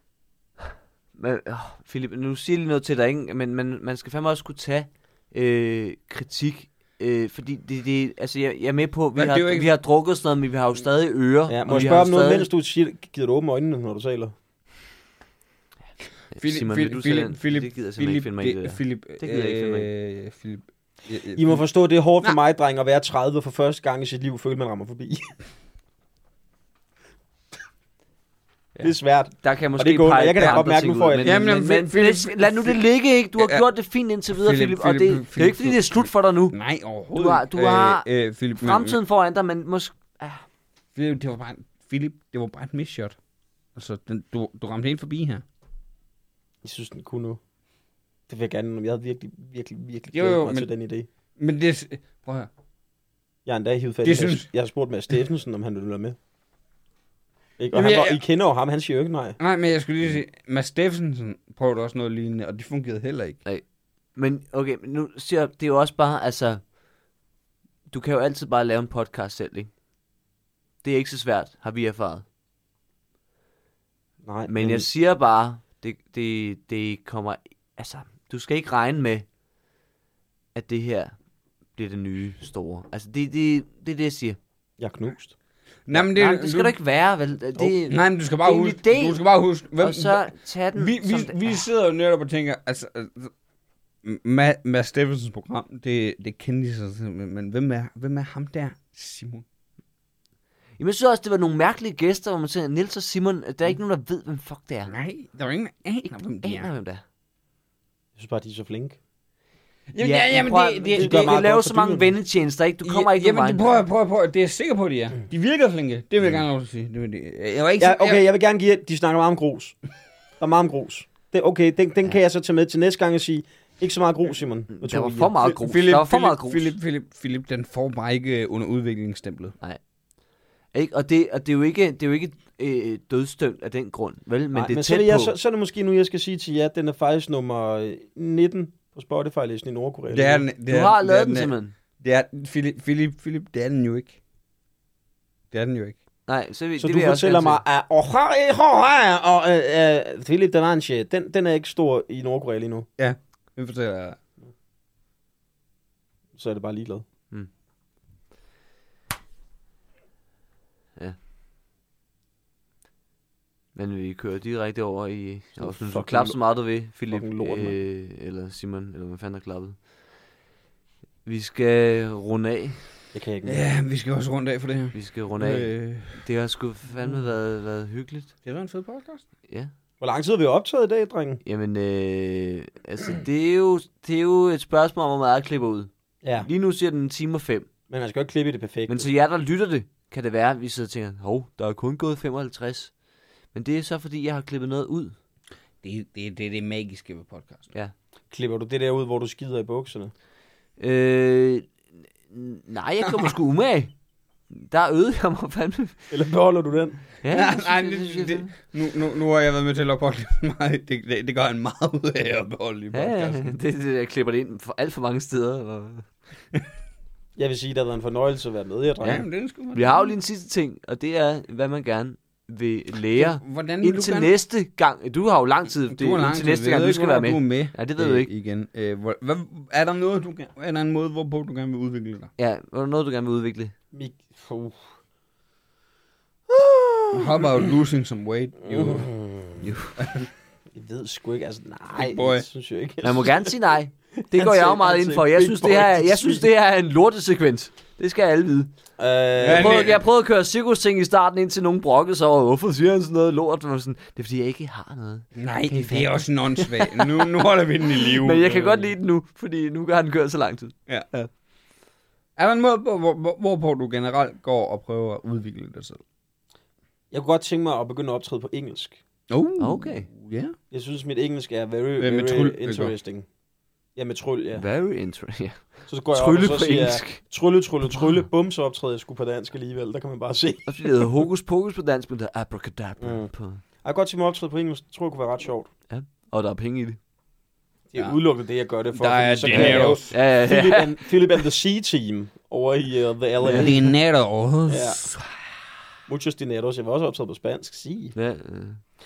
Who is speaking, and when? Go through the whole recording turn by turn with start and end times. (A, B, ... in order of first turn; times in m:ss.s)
0:01.1-0:12.5 A
0:09.2-0:09.7 B
0:11.5-0:14.3 C
0:16.3-0:19.9 A
0:16.4-0:21.6 B
0:21.3-0:25.4 C
0:28.8-0:36.6 A
0:28.8-0:31.4 C
0:31.2-0:32.8 B
0:33.4-0:33.7 B
0:34.3-0:39.0 B
0:37.1-0:38.1 A
0:38.6-0:40.4 A
0:41.0-0:43.2 B
0:43.8-0:45.4 B
0:46.6-0:47.4 C
0:48.3-0:51.1 C
0:50.1-0:50.7 B
0:51.4-0:52.5 B
0:53.4-0:56.2 C
0:54.0-0:54.5 B
0:57.6-0:59.4 C
0:57.7-0:58.2 B
0:59.4-1:03.4 B
1:03.4-1:06.7 A
1:07.9-1:09.7 A
1:10.8-1:12.2 A
1:14.2-1:14.9 C
1:14.5-1:19.3 A
1:20.6-1:21.1 A
1:21.8-1:24.4 A
1:24.8-1:25.4 C
1:25.9-1:26.8 B
1:25.9-1:29.2 A
1:27.9-1:33.3 B
1:29.8-1:31.6 A
1:34.0-1:39.4 B
1:40.8-1:44.9 A
1:44.9-1:46.7 B
1:46.1-1:47.0 A
1:48.2-1:49.0 C
1:49.9-1:51.4 B
1:50.0-1:53.8 A
1:50.9-1:52.1 C
1:52.8-1:58.2 B
1:57.8-1:59.8 C
2:00.4-2:05.6 C
2:04.7-2:06.8 A
2:05.6-2:09.6 B
2:10.7-2:15.3 A
2:14.5-2:20.4 C
2:20.1-2:24.2 B
2:20.7-2:21.7 A
2:25.5-2:26.0 B
2:26.3-2:27.6 A
2:26.8-2:32.9 C
2:33.0-2:34.2 B
2:36.4-2:37.0 C
2:43.8-2:49.9 A
2:45.6-2:46.5 C
2:47.1-2:47.8 C
2:51.2-2:52.9 A
2:53.1-2:53.7 C
2:53.4-2:56.3 B
2:54.9-2:58.3 A
2:58.4-2:59.2 B
3:00.0-3:01.4 C
3:01.4-3:07.7 A
3:06.2-3:06.5 C
3:07.9-3:09.1 C
3:08.9-3:13.0 A
3:13.5-3:15.2 A
3:15.8-3:17.7 B
3:18.3-3:20.1 C
3:20.8-3:23.9 A
3:23.1-3:23.3 B
3:24.5-3:26.1 A
3:26.1-3:27.1 C
3:27.2-3:28.5 A
3:27.3-3:33.5 B
3:32.9-3:36.1 A
3:37.4-3:39.3 C
3:39.0-3:40.1 B
3:39.7-3:48.3 A
3:43.2-3:44.3 B
3:45.9-3:52.3 B
3:52.4-3:53.8 A
3:53.9-3:54.9 C
3:56.5-3:57.7 C
3:57.1-3:59.1 B
3:58.6-3:59.8 C
3:59.6-4:00.0 A
4:00.0-4:00.3 B
4:00.7-4:03.6 C
4:02.0-4:02.4 B
4:03.0-4:08.7 A
4:04.2-4:06.4 C
4:09.0-4:10.0 C
4:09.4-4:10.0 B
4:09.5-4:21.3 A
4:15.4-4:19.0 B
4:22.4-4:26.0 B
4:27.1-4:29.0 C
4:29.3-4:30.6 B
4:29.6-4:30.1 A
4:30.7-4:33.3 C
4:32.0-4:33.0 B
4:34.0-4:34.6 C
4:34.6-4:37.2 A
4:35.9-4:41.1 C
4:40.7-4:43.6 A
4:43.0-4:45.7 C
4:45.9-4:47.0 A
4:47.9-4:54.0 C
4:48.9-4:50.2 B
4:49.5-4:51.1 A
4:53.4-4:53.7 A
4:53.5-4:55.3 B
4:54.7-4:55.1 C
4:56.1-4:58.1 C
4:58.1-4:58.8 A